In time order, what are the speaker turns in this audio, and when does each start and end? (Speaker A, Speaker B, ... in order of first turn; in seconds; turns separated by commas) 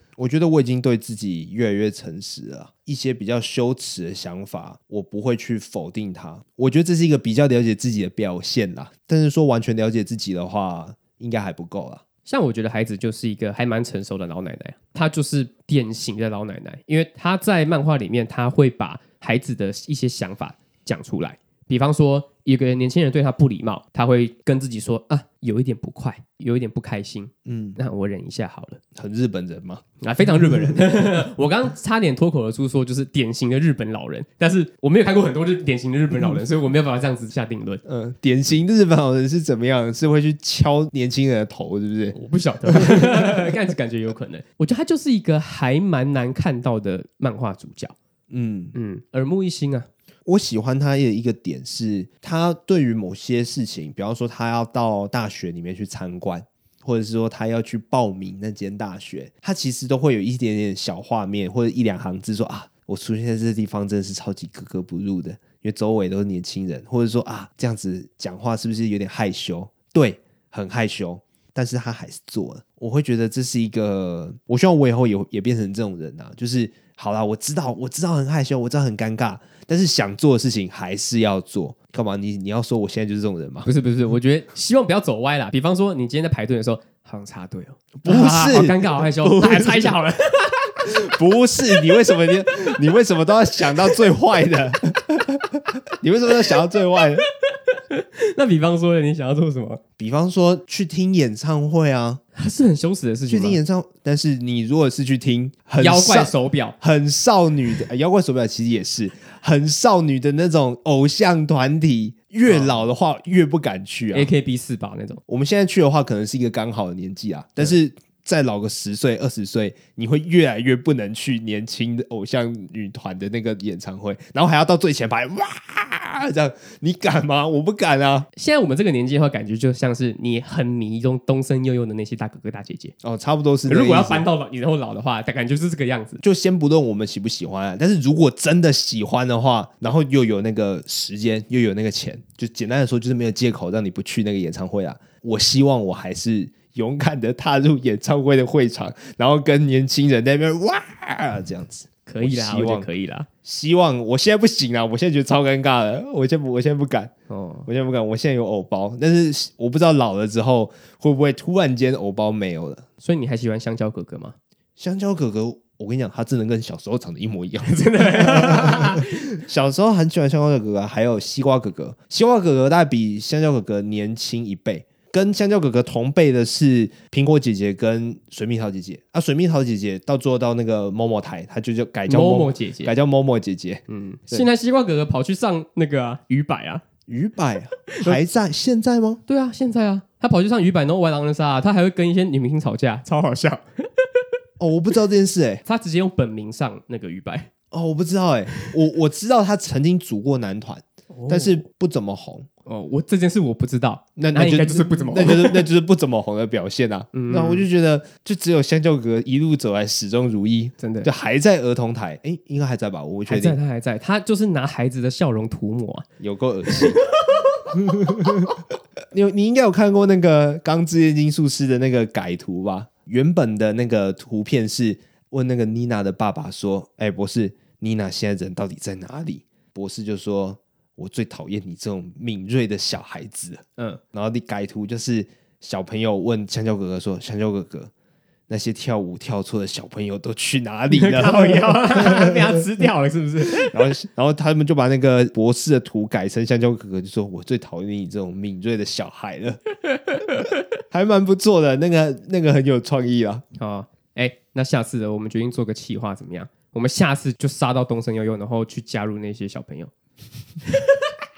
Speaker A: 0.2-12.0, Speaker B: 12.3-28.8, Speaker A: 27.5-27.8, Speaker A: 29.0-30.9, Speaker B: 30.0-37.8, Speaker A: 37.9-42.2, Speaker B: 42.1-48.0, Speaker A: 42.7-43.5, Speaker A: 48.3-48.7, Speaker B: 48.7-49.9, Speaker A: 50.3-83.7, Speaker B: 83.7-92.2, Speaker A: 88.0-90.0, Speaker A: 90.8-97.2, Speaker B: 97.5-99.8, Speaker A: 100.0-102.2, Speaker B: 102.3-103.6, Speaker A: 103.3-114.3, Speaker B: 105.8-106.8, Speaker B: 112.5-112.8, Speaker B: 114.1-115.2, Speaker A: 115.3-128.3, Speaker B: 128.4-132.9, Speaker A: 133.0-134.2, Speaker B: 133.7-136.2, Speaker A: 136.2-152.9, Speaker B: 152.1-153.3, Speaker A: 153.4-157.1, Speaker B: 157.3-157.7, Speaker A: 157.7-162.9, Speaker B: 163.0-164.4, Speaker A: 164.8-184.5, Speaker B: 167.7-169.4, Speaker B: 182.1-182.9, Speaker B: 183.9-186.8, Speaker A: 187.1-189.2, Speaker B: 187.9-188.2, Speaker B: 189.3-194.2, Speaker A: 194.6-195.6, Speaker B: 195.7-197.5, Speaker A: 197.7-202.5, Speaker B: 201.1-201.6, Speaker B: 202.7-205.7, Speaker A: 204.2-213.6, Speaker B: 207.1-207.7, Speaker B: 210.8-211.1, Speaker B: 213.3-216.1, Speaker A: 216.2-217.0, Speaker B: 216.7-218.4, Speaker A: 217.7-218.6, Speaker A: 219.1-237.9, Speaker A: 238.5-242.6, Speaker B: 240.9-243.8, Speaker A: 243.6-249.6, Speaker B: 249.9-250.5, Speaker A: 250.9-253.4, Speaker B: 253.6-259.9, Speaker B: 260.6-261.1